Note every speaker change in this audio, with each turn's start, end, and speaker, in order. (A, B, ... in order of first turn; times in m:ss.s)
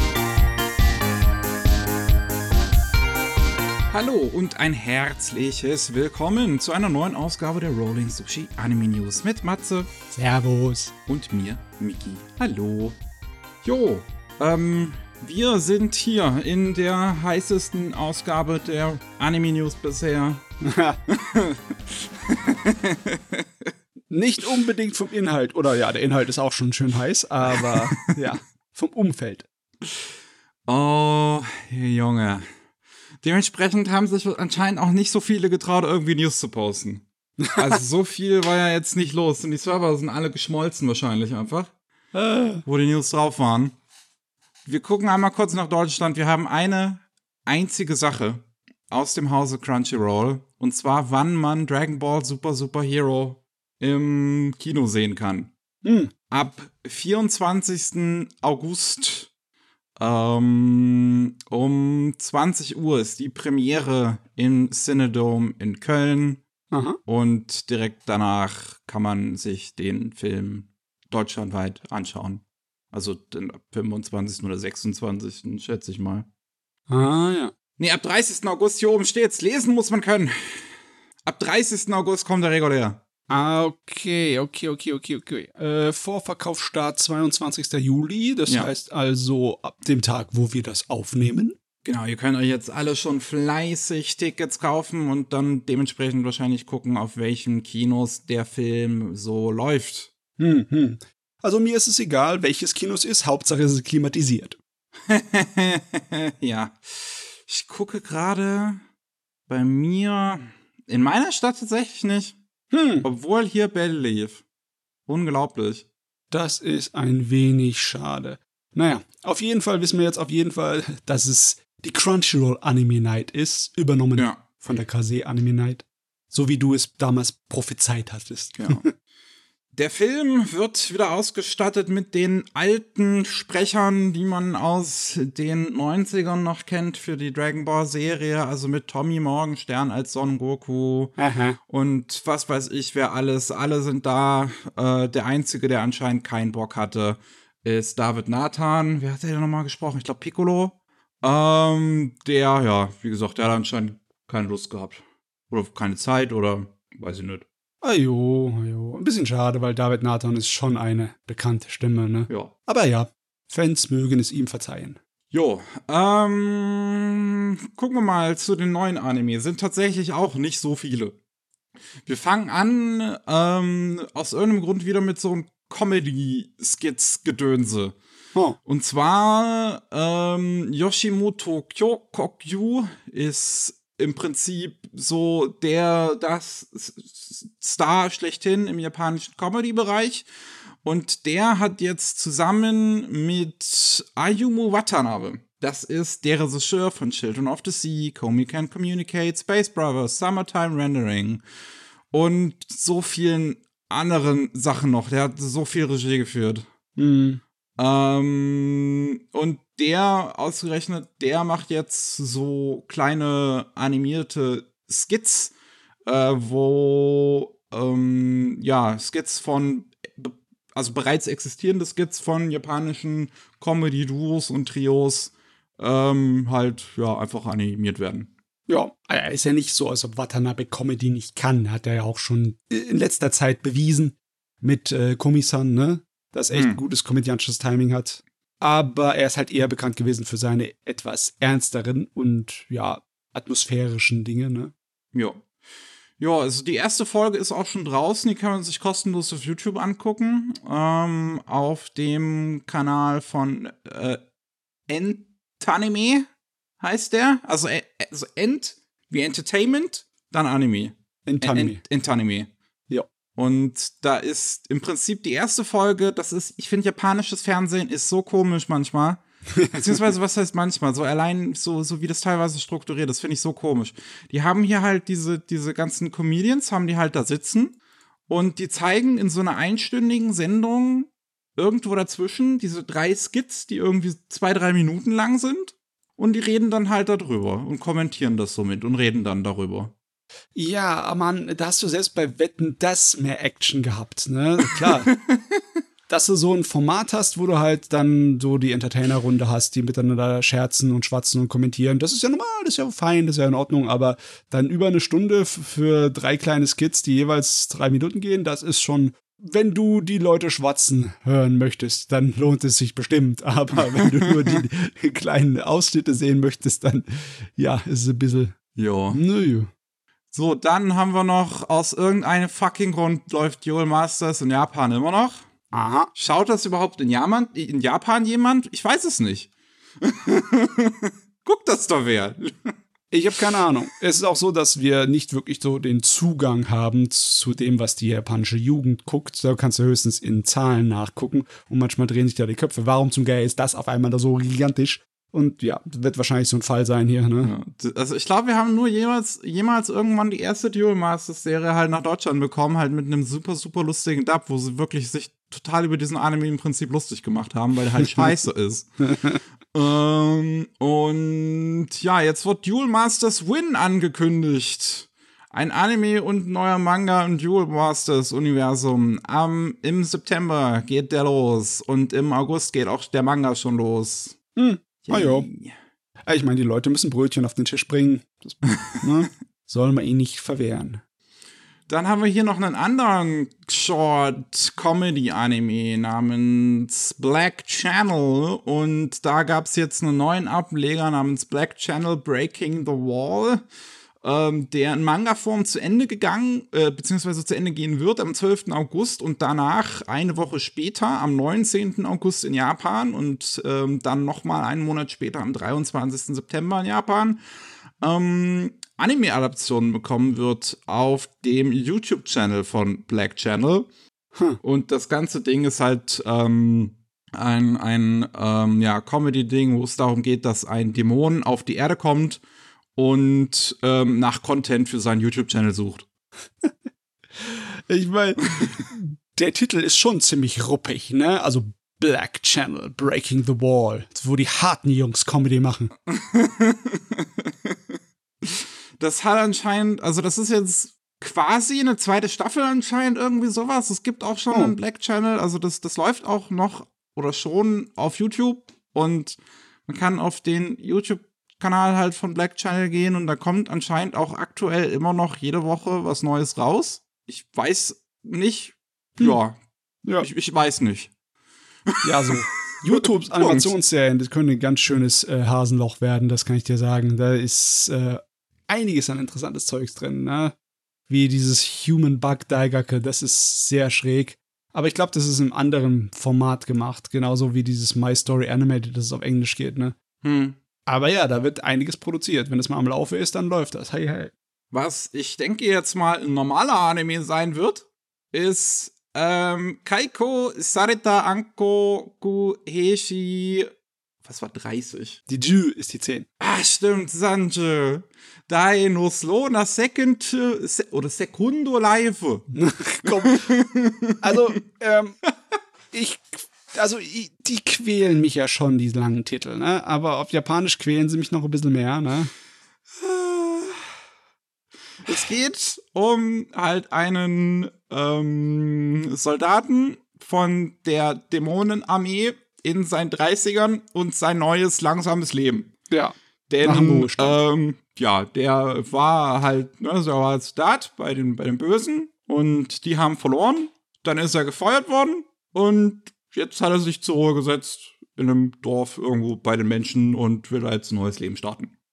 0:03.9-0:09.9 A
0:10.1-0:10.9 B
0:11.1-0:13.0 A
0:13.6-0:20.4 A
0:20.6-0:21.0 B
0:21.1-0:23.7 A
0:24.1-0:29.5 B
0:30.7-0:32.4 A
0:33.2-0:41.7 A
0:42.1-0:42.6 B
0:42.6-0:43.7 A
0:44.6-0:55.5 A
0:55.8-0:56.1 B
0:56.3-0:59.3 A
1:00.0-1:06.4 A
1:06.7-1:07.0 B
1:07.0-1:16.3 A
1:16.9-1:17.5 B
1:17.8-1:20.7 A
1:21.2-1:23.0 A
1:23.3-1:31.6 B
1:31.8-1:40.1 A
1:40.4-1:44.6 B
1:45.1-1:48.8 A
1:49.5-1:52.4 A
1:52.7-1:53.0 B
1:53.0-1:54.4 A
1:55.1-1:55.8 A
1:56.3-2:08.9 B
2:04.2-2:04.4 A
2:08.6-2:08.8 A
2:09.7-2:21.2 A
2:21.2-2:21.6 B
2:21.7-2:37.4 A
2:37.8-2:45.0 B
2:45.3-2:51.2 A
2:52.0-2:58.0 A
2:58.6-3:10.3 A
3:10.8-3:21.4 A
3:22.1-3:26.7 A
3:27.0-3:27.4 B
3:27.8-3:35.5 A
3:36.0-3:48.3 A
3:48.7-4:04.7 B
3:56.5-3:56.8 A
4:05.1-4:05.4 A
4:06.2-4:14.2 A
4:14.9-4:16.3 A
4:16.8-4:22.5 A
4:21.2-4:21.8 B
4:23.4-4:37.8 A
4:29.5-4:30.0 B
4:38.3-4:49.9 A
4:50.5-4:55.1 B
4:54.8-4:55.6 A
4:56.1-5:18.5 B
5:18.7-5:19.2 A
5:19.1-5:19.7 B
5:20.3-5:25.4 A
5:25.7-5:26.1 B
5:26.1-5:29.5 A
5:30.0-5:32.7 A
5:33.1-5:47.5 B
5:47.4-5:59.0 A
5:59.7-6:14.4 A
6:14.6-6:15.5 B
6:15.0-6:15.8 A
6:16.3-6:21.0 B
6:21.9-6:33.6 A
6:34.2-6:47.4 A
6:48.0-6:53.9 A
6:54.6-7:02.4 A
7:03.0-7:06.0 A
7:07.4-7:15.9 B
7:16.1-7:17.8 A
7:18.4-7:39.6 A
7:40.2-7:41.1 A
7:41.9-7:42.3 A
7:42.0-7:50.5 B
7:43.3-7:43.7 A
7:51.1-7:59.9 B
8:00.2-8:00.6 A
8:00.8-8:04.3 B
8:04.7-8:13.7 A
8:14.2-8:15.2 A
8:15.3-8:16.3 B
8:16.4-8:22.5 A
8:22.5-8:23.5 B
8:23.0-8:24.4 A
8:24.2-8:25.2 B
8:25.9-8:32.3 B
8:33.0-8:33.9 A
8:35.0-8:45.7 A
8:45.9-8:47.4 B
8:46.5-9:01.7 A